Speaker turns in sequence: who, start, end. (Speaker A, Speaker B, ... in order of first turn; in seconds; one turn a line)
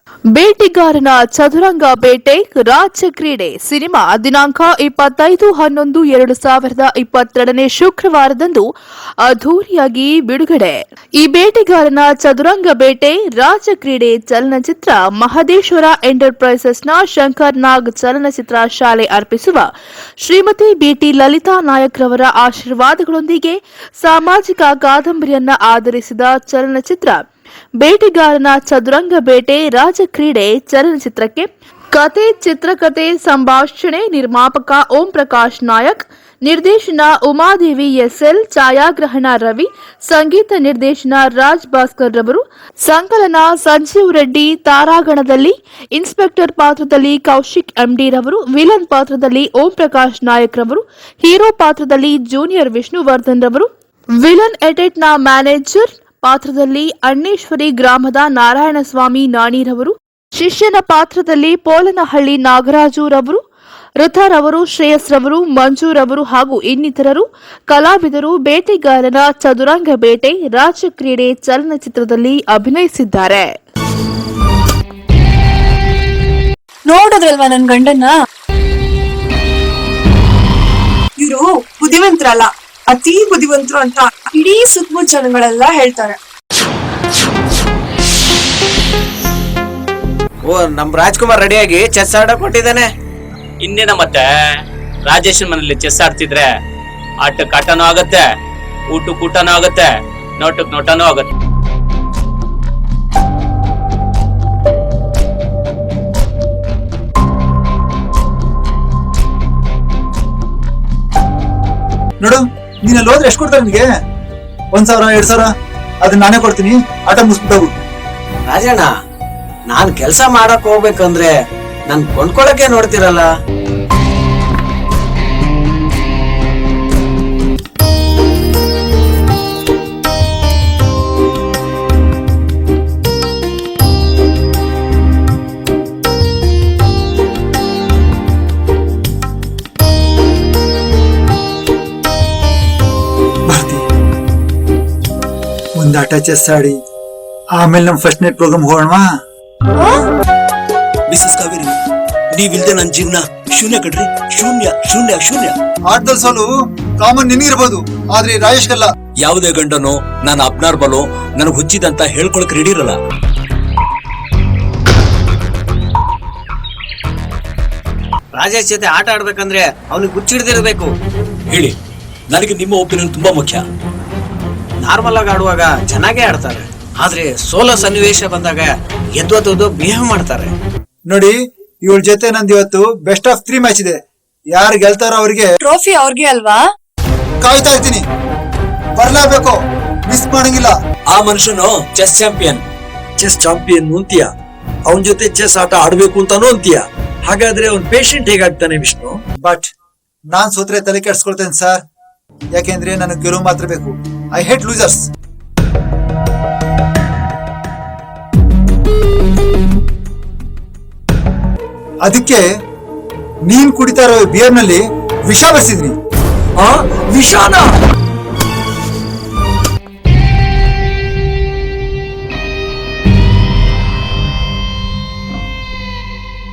Speaker A: 0.3-8.7
Speaker A: 9.2-19.7
Speaker A: 20.2-27.2
Speaker A: 27.8-63.4
Speaker A: 64.0-73.5
Speaker B: 76.8-78.1
Speaker B: 81.2-86.2
Speaker C: 90.4-92.9
Speaker D: 93.6-96.5
Speaker D: 97.2-98.3
Speaker D: 98.9-101.3
Speaker E: 112.2-113.9
Speaker E: 114.7-115.5
Speaker E: 116.0-117.7
Speaker C: 118.5-118.9
Speaker C: 119.7-121.3
Speaker C: 121.9-123.2
Speaker E: 143.5-143.8
Speaker E: 145.8-146.8
Speaker E: 147.6-149.0
Speaker F: 151.1-151.7
Speaker F: 152.3-155.5
Speaker E: 155.9-156.5
Speaker E: 157.0-158.9
Speaker F: 159.2-162.9
Speaker C: 168.3-170.9
Speaker F: 172.3-173.6
Speaker C: 174.8-180.5
Speaker E: 181.1-184.0
Speaker E: 184.5-185.5
Speaker B: 185.6-186.7
Speaker E: 187.4-188.0
Speaker E: 189.0-189.6
Speaker E: 190.1-190.7
Speaker F: 191.1-192.6
Speaker F: 193.2-194.3
Speaker F: 194.9-199.2
Speaker E: 199.4-199.7
Speaker E: 200.3-201.8
Speaker E: 202.5-205.1
Speaker E: 212.0-212.4
Speaker E: 213.5-215.9
Speaker F: 216.6-217.7